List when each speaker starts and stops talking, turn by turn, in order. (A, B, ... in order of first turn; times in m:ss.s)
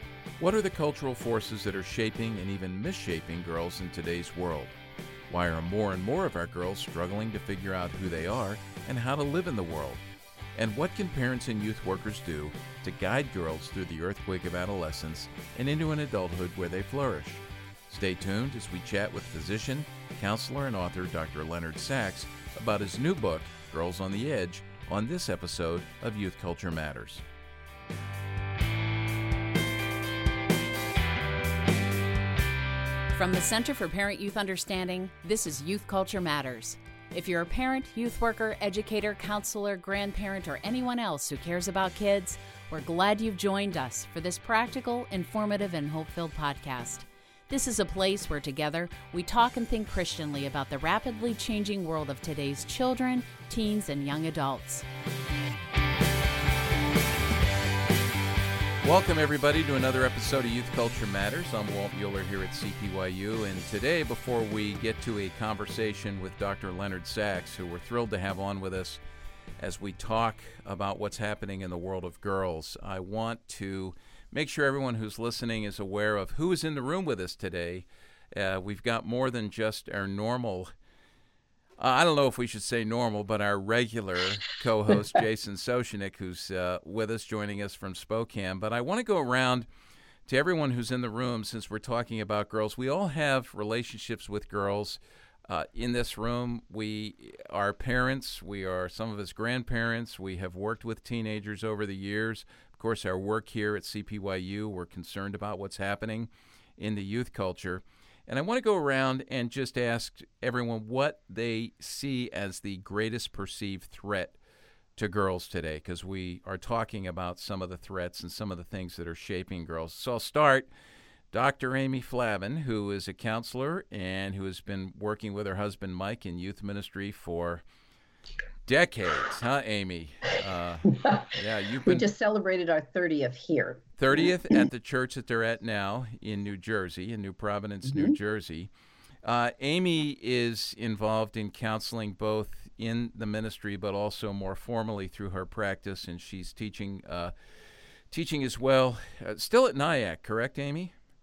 0:00.4-0:04.7 A
0:05.3-0:10.0 A
0:10.5-0:27.2 A
0:33.1-0:54.8 B
0:58.8-1:09.0 A
1:09.6-1:20.7 A
1:21.8-1:29.7 A
1:30.2-1:54.4 A
1:55.0-2:00.7 A
2:01.3-2:07.6 A
2:08.6-2:12.1 A
2:11.8-2:13.9 C
2:14.0-2:18.7 A
2:17.9-2:18.2 C
2:19.2-2:27.3 A
2:28.1-2:30.9 A